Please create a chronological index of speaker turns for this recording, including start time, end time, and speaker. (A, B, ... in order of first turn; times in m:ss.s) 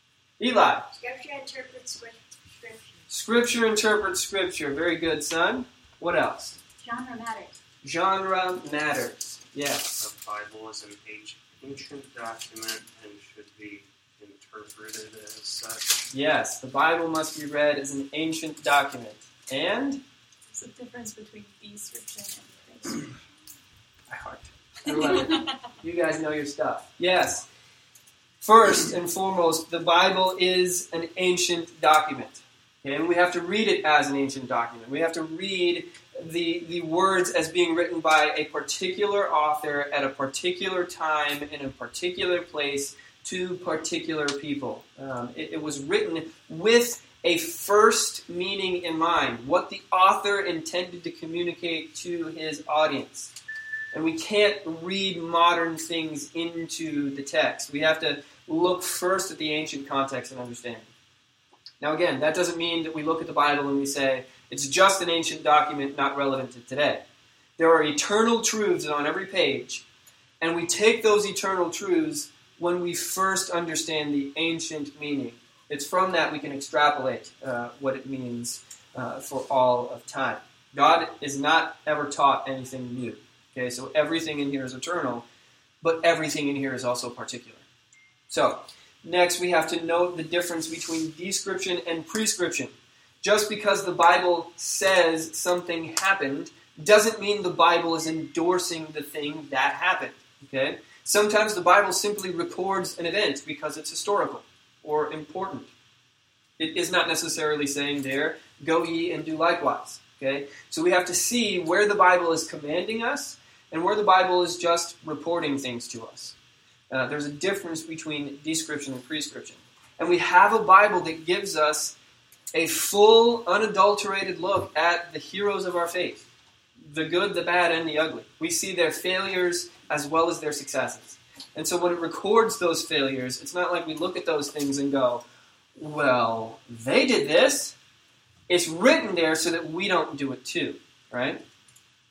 0:00.4-0:00.9 A
0:00.9-0:03.0 B
0:03.1-0:06.6 A
0:06.8-0:07.6 B
0:07.8-0:10.0 A
0:10.0-0:16.0 C
0:16.1-0:20.0 A
0:20.5-0:23.2 D
0:24.1-0:27.4 A
0:28.4-0:53.3 A
0:53.9-1:00.9 A
1:01.8-1:07.0 A
1:07.6-1:09.8 A
1:10.4-1:25.2 A
1:25.8-1:27.6 A
1:28.3-1:45.7 A
1:46.6-1:56.4 A
1:56.9-2:02.0 A
2:02.5-2:06.2 A
2:06.9-2:15.2 A
2:15.8-2:17.8 A
2:18.5-2:21.4 A